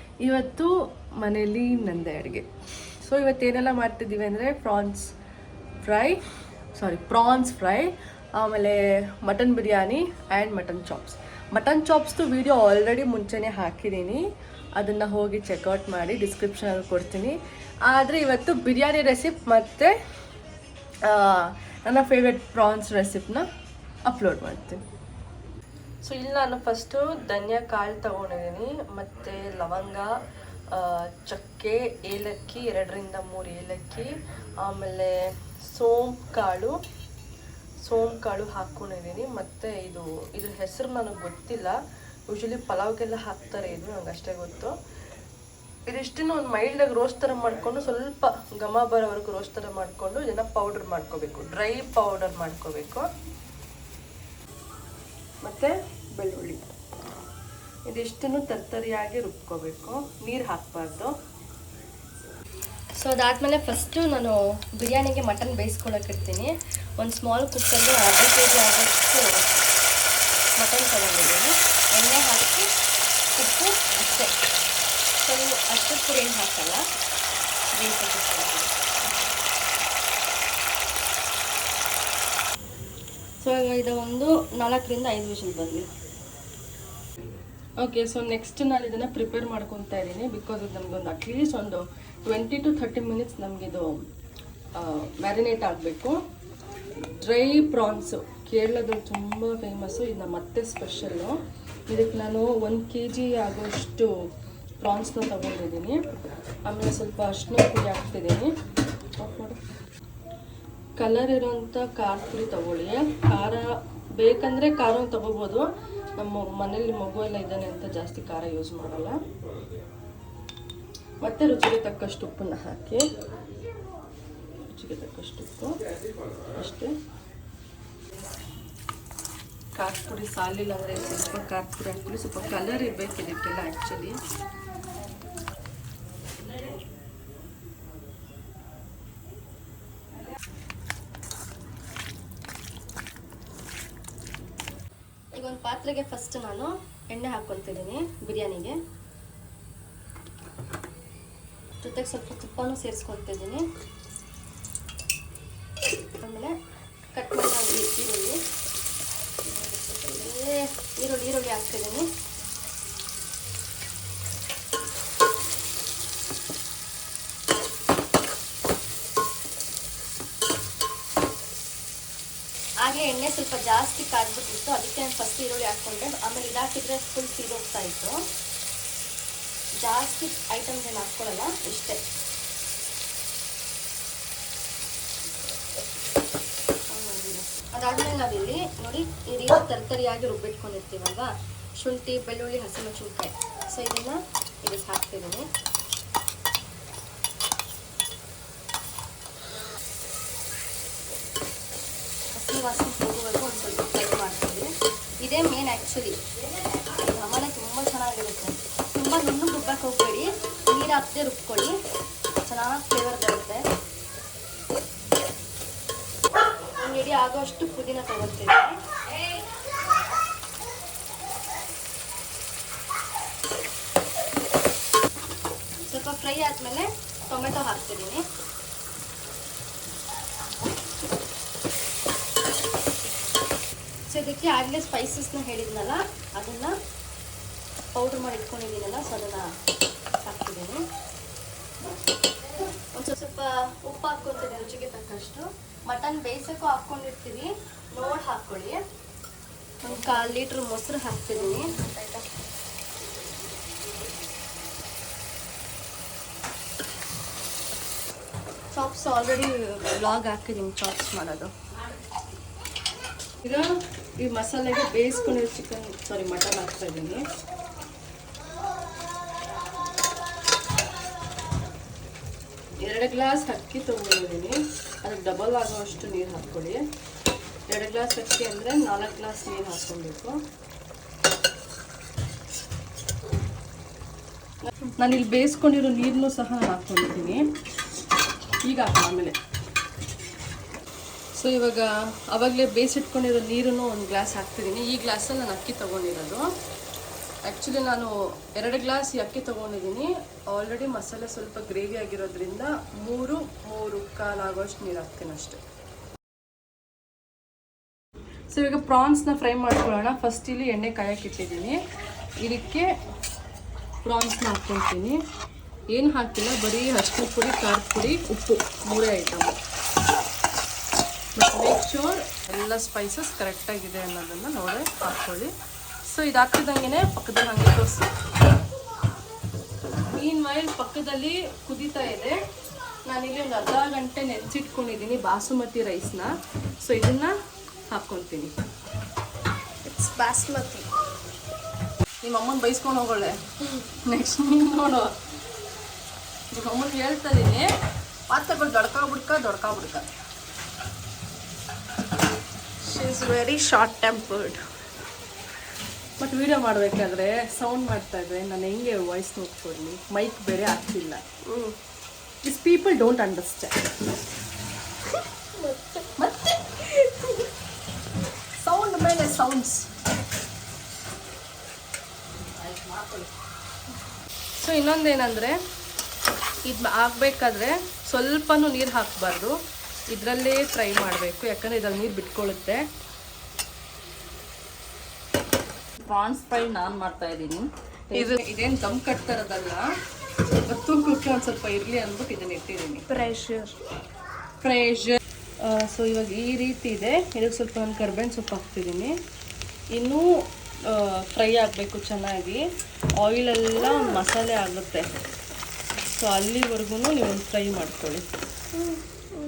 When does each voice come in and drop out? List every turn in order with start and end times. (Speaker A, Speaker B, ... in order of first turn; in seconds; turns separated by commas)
Speaker A: 0.2-2.5, Speaker A: 3.0-5.1, Speaker A: 5.8-6.2, Speaker A: 6.7-14.2, Speaker A: 14.8-19.9, Speaker A: 21.0-23.4, Speaker A: 24.0-24.8, Speaker A: 26.0-30.1, Speaker A: 30.7-36.8, Speaker A: 37.8-41.8, Speaker A: 42.3-44.7, Speaker A: 45.9-53.1, Speaker A: 55.4-56.6, Speaker A: 57.9-61.1, Speaker A: 63.0-69.5, Speaker A: 70.6-72.7, Speaker A: 73.3-74.3, Speaker B: 75.2-76.7, Speaker A: 75.2-76.8, Speaker B: 77.8-78.7, Speaker A: 77.8-78.7, Speaker A: 83.4-85.9, Speaker A: 87.8-94.0, Speaker A: 94.7-96.2, Speaker A: 97.0-104.1, Speaker A: 104.8-106.0, Speaker A: 106.6-108.5, Speaker A: 109.2-109.6, Speaker A: 111.0-119.2, Speaker A: 121.2-123.1, Speaker A: 124.6-125.8, Speaker A: 126.5-126.9, Speaker A: 129.8-134.2, Speaker A: 145.3-148.8, Speaker A: 151.8-153.7, Speaker A: 156.2-156.6, Speaker A: 157.1-158.4, Speaker A: 159.4-162.1, Speaker A: 172.8-178.2, Speaker A: 179.8-182.0, Speaker B: 179.9-180.5, Speaker B: 181.6-181.9, Speaker A: 186.9-195.5, Speaker B: 188.7-189.6, Speaker A: 202.3-204.7, Speaker B: 202.4-204.5, Speaker A: 205.2-206.2, Speaker A: 207.0-211.7, Speaker B: 208.9-210.0, Speaker B: 210.8-211.7, Speaker A: 212.4-213.7, Speaker A: 216.8-218.8, Speaker A: 225.8-228.2, Speaker A: 234.1-236.7, Speaker A: 237.9-239.5, Speaker A: 240.2-240.8, Speaker A: 242.9-248.8, Speaker A: 249.8-252.2, Speaker B: 249.9-250.2, Speaker B: 251.4-252.2, Speaker A: 258.7-261.5, Speaker A: 263.4-267.2, Speaker A: 272.8-276.8, Speaker A: 277.7-280.4, Speaker A: 284.6-287.4, Speaker A: 288.6-289.4, Speaker A: 291.3-296.4, Speaker A: 297.4-305.6, Speaker A: 308.5-311.8, Speaker A: 312.4-312.9, Speaker A: 314.0-315.2, Speaker A: 315.9-319.6, Speaker A: 321.4-325.5, Speaker A: 326.0-328.1, Speaker A: 330.1-332.4, Speaker A: 333.0-337.3, Speaker A: 337.9-338.5, Speaker B: 339.8-340.9, Speaker A: 342.2-345.1, Speaker A: 346.5-347.7, Speaker A: 348.3-350.1, Speaker B: 352.9-354.6, Speaker A: 356.2-361.2, Speaker A: 362.4-363.8, Speaker A: 366.1-367.3, Speaker A: 368.6-369.9, Speaker C: 372.6-373.3, Speaker A: 374.6-375.6, Speaker A: 376.6-379.6, Speaker A: 380.1-382.9, Speaker C: 386.0-387.7, Speaker A: 388.1-389.9, Speaker A: 390.6-393.1, Speaker B: 393.1-393.7, Speaker A: 394.6-399.1, Speaker A: 399.9-402.6, Speaker A: 403.1-405.1, Speaker A: 406.0-408.2